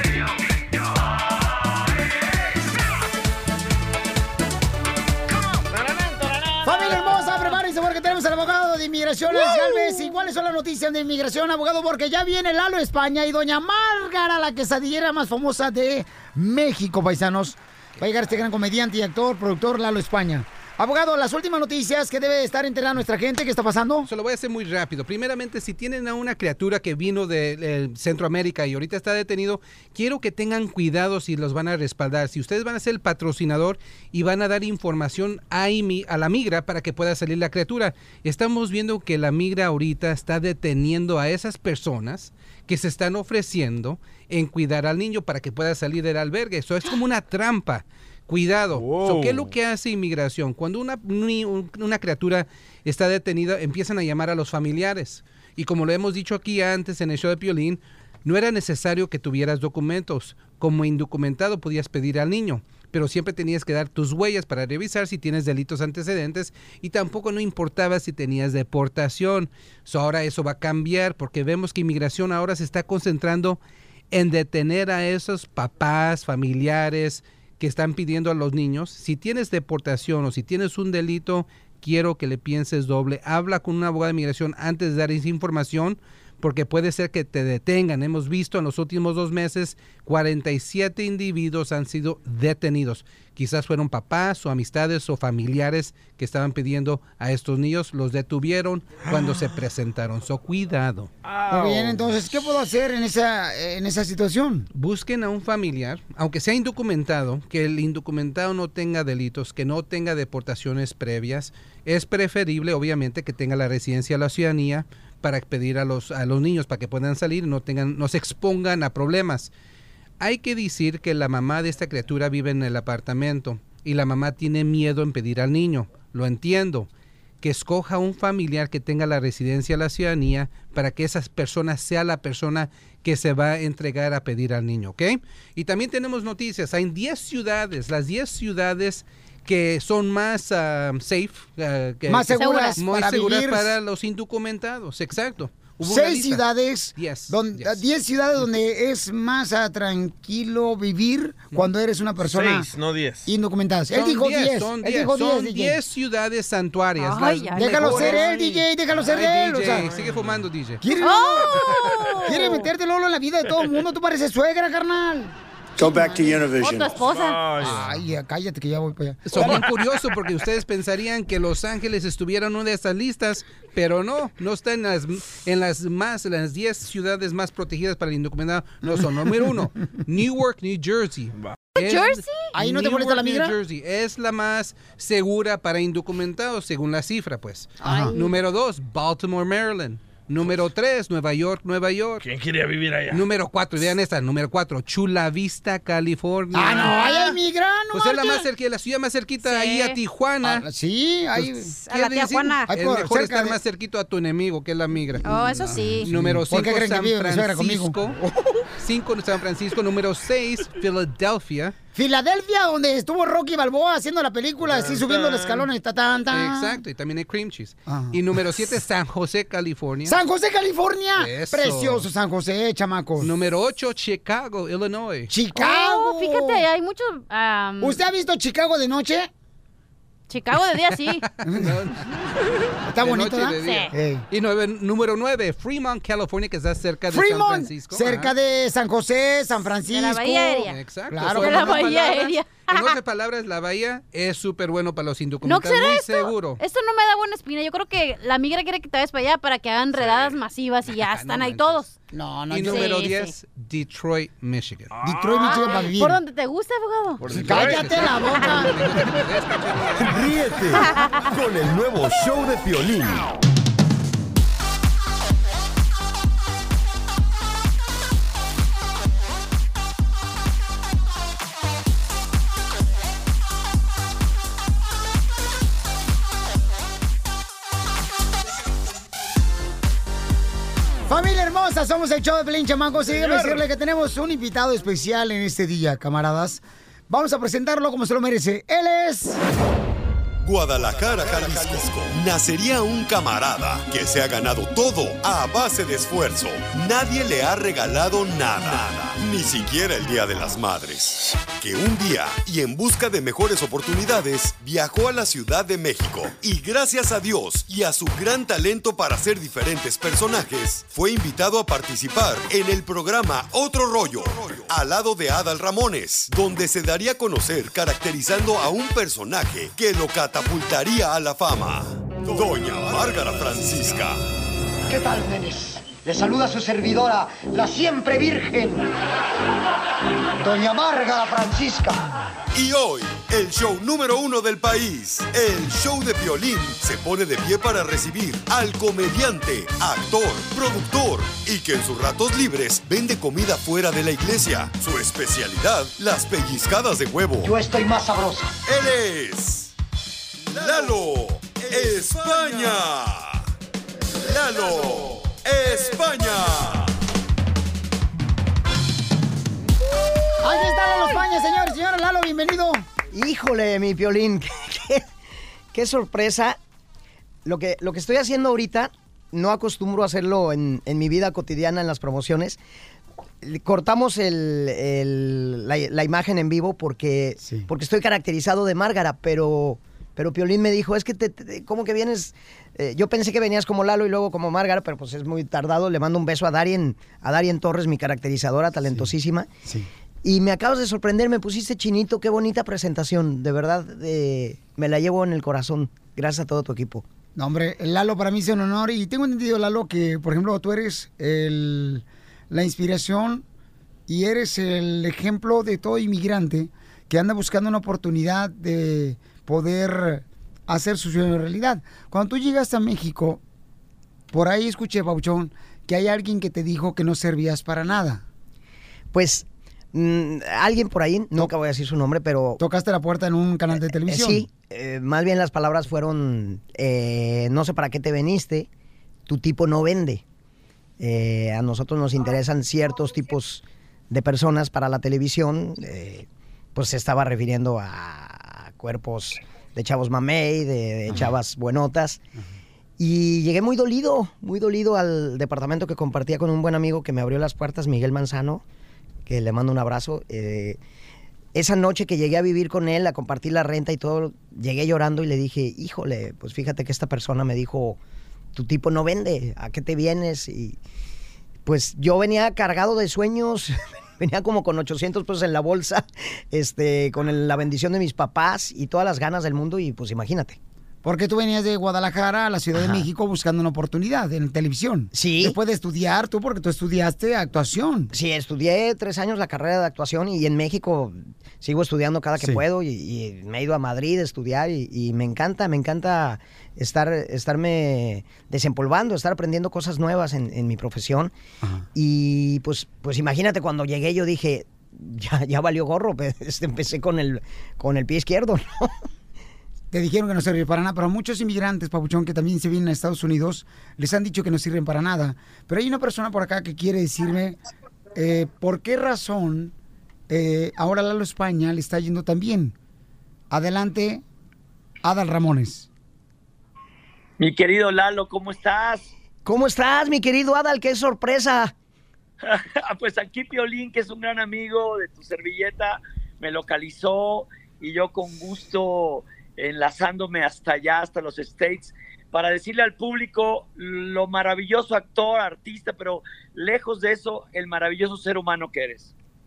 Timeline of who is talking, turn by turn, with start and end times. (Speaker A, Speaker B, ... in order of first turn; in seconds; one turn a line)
Speaker A: 5.7-7.3
Speaker B: 6.6-24.1
Speaker C: 18.0-18.4
Speaker C: 24.1-73.6
Speaker A: 48.8-49.5
Speaker C: 74.1-101.1
Speaker A: 101.2-102.1
Speaker B: 101.5-104.7
Speaker C: 104.7-119.5
Speaker C: 120.2-126.9
Speaker C: 127.4-146.4
Speaker B: 142.1-143.8
Speaker D: 142.3-142.8
Speaker B: 145.8-152.7
Speaker C: 147.0-147.8
Speaker A: 152.2-153.3
Speaker B: 153.3-155.8
Speaker C: 153.9-160.8
Speaker D: 157.0-158.3
Speaker B: 157.6-159.9
Speaker A: 159.8-160.4
Speaker B: 160.8-166.5
Speaker D: 161.0-162.7
Speaker A: 165.8-167.9
Speaker D: 166.5-167.4
Speaker B: 167.6-169.7
Speaker C: 169.3-192.2
Speaker A: 169.4-169.7
Speaker B: 178.8-179.6
Speaker D: 181.8-182.5
Speaker B: 182.6-183.6
Speaker B: 187.8-188.2
Speaker D: 187.8-188.3
Speaker A: 192.2-193.2
Speaker C: 193.1-197.3
Speaker B: 196.5-198.5
Speaker D: 196.9-197.3
Speaker C: 197.9-200.7
Speaker D: 199.4-200.0
Speaker B: 200.4-201.8
Speaker C: 201.4-205.3
Speaker D: 201.8-202.7
Speaker B: 202.7-203.6
Speaker D: 205.2-206.1
Speaker B: 205.2-208.1
Speaker C: 206.1-208.2
Speaker C: 208.8-211.8
Speaker B: 211.9-216.8
Speaker A: 214.6-215.7
Speaker C: 216.3-220.2
Speaker B: 217.9-218.2
Speaker B: 220.1-223.3
Speaker C: 221.2-222.1
Speaker C: 223.2-225.3
Speaker B: 225.3-226.7
Speaker D: 225.6-228.0
Speaker B: 227.8-229.3
Speaker D: 230.3-231.2
Speaker C: 230.8-232.1
Speaker B: 231.4-231.8
Speaker B: 232.9-234.2
Speaker C: 233.0-238.3
Speaker D: 233.6-233.9
Speaker B: 237.1-242.0
Speaker D: 239.9-240.8
Speaker C: 240.6-246.6
Speaker D: 241.4-243.0
Speaker D: 245.4-251.9
Speaker C: 249.9-251.9
Speaker B: 252.1-253.1
Speaker C: 252.5-254.9
Speaker D: 252.6-253.3
Speaker A: 254.9-255.6
Speaker B: 255.0-256.2
Speaker D: 255.4-257.2
Speaker A: 257.3-257.9
Speaker B: 257.3-258.9
Speaker C: 257.3-260.3
Speaker D: 258.2-258.5
Speaker E: 260.1-263.3
Speaker D: 260.8-261.1
Speaker B: 281.1-289.4
Speaker A: 283.1-283.6
Speaker F: 290.4-324.2
Speaker G: 324.9-328.9
Speaker G: 330.4-332.0
Speaker F: 332.5-347.5
Speaker G: 347.4-348.6
Speaker F: 348.7-349.7
Speaker F: 350.5-353.4
Speaker F: 354.2-356.9
Speaker B: 360.4-362.9
Speaker H: 363.1-365.1
Speaker H: 365.7-366.6
Speaker H: 367.4-372.6
Speaker H: 373.4-389.5
Speaker B: 377.4-377.7
Speaker B: 388.9-389.1
Speaker H: 390.2-397.1
Speaker B: 397.4-403.4
Speaker B: 404.1-413.4
Speaker B: 414.3-418.2
Speaker H: 419.1-422.6
Speaker B: 422.6-424.5
Speaker H: 424.1-428.7
Speaker H: 429.3-430.2
Speaker H: 431.0-442.2
Speaker H: 443.0-448.6
Speaker H: 449.3-450.8
Speaker H: 451.5-458.0
Speaker H: 458.5-460.8
Speaker H: 461.6-470.6
Speaker B: 471.0-478.1
Speaker H: 472.7-473.1
Speaker H: 475.1-475.6
Speaker H: 478.1-491.3
Speaker H: 491.9-498.9
Speaker B: 499.9-507.6
Speaker B: 508.1-509.7
Speaker B: 510.3-512.8
Speaker B: 513.5-514.2
Speaker B: 515.0-515.9
Speaker I: 517.4-519.1
Speaker H: 519.5-521.7
Speaker I: 522.4-539.1